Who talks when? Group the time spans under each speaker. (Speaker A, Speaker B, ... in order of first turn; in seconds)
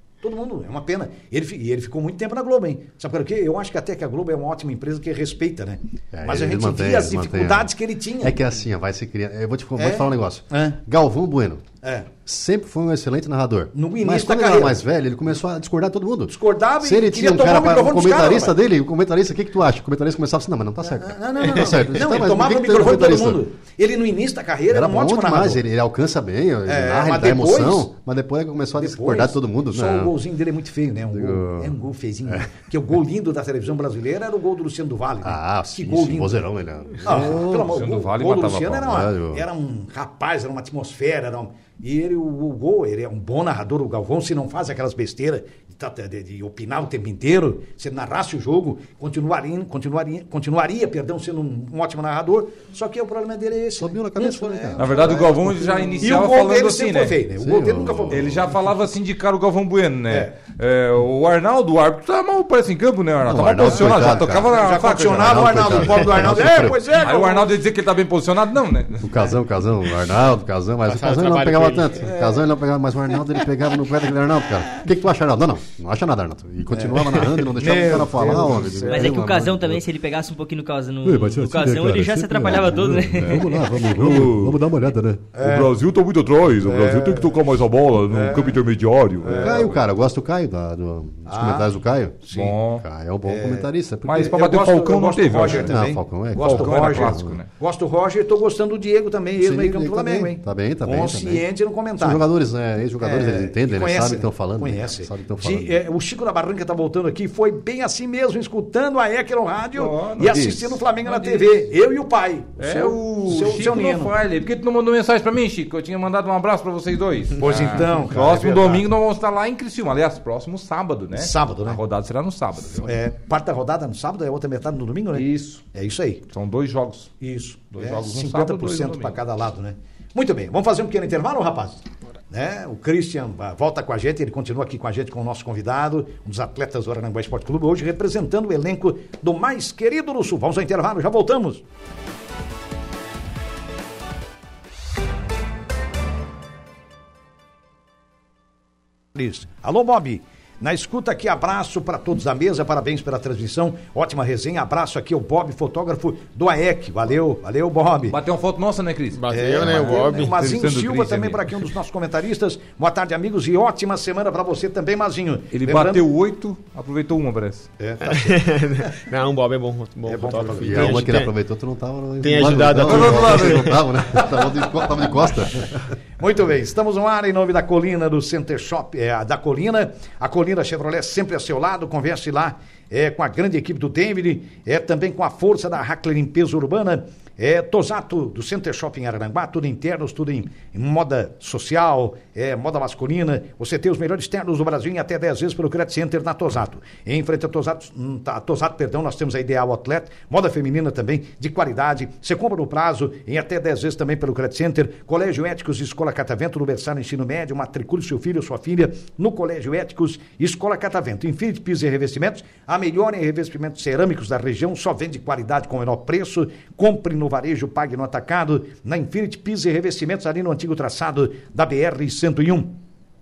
Speaker A: 0.2-8.4, 9.8-10.8, 11.8-12.1, 13.7-14.8, 16.3-18.5, 20.8-25.6, 26.7-27.9, 28.8-36.5, 37.0-58.5, 63.7-67.5, 72.1-72.5, 76.7-79.2, 85.3-85.8, 86.6-87.4, 88.1-88.6, 89.2-89.8, 91.3-91.7, 92.2-92.5, 93.3-102.2, 103.0-114.1, 117.4-118.9, 121.2-121.8, 122.8-126.2, 127.2-141.6, 149.1-158.2, 159.3-166.1, 167.8-168.5, 170.1-171.0, 176.2-222.8
Speaker B: 6.1-11.7, 12.2-23.4, 24.7-30.1, 31.1-32.5, 35.2-37.8, 38.8-39.5, 53.8-56.0, 57.4-58.5, 63.3-66.8, 69.0-79.8, 81.0-85.2, 89.3-94.3, 95.4-97.4, 99.4-101.5, 102.0-105.8, 170.6-175.9
Speaker C: 37.3-39.0, 54.8-57.2, 58.1-66.2, 67.0-69.3, 83.8-84.6, 85.4-89.8, 92.3-92.8, 94.1-95.8, 96.4-97.5, 109.8-111.7, 112.6-122.9, 125.1-125.7, 126.3-127.2, 127.7-129.2, 158.1-161.7, 165.5-167.7, 172.8-174.5
Speaker D: 70.9-72.1, 159.1-160.3, 168.0-171.4, 172.2-173.7
Speaker E: 78.9-83.7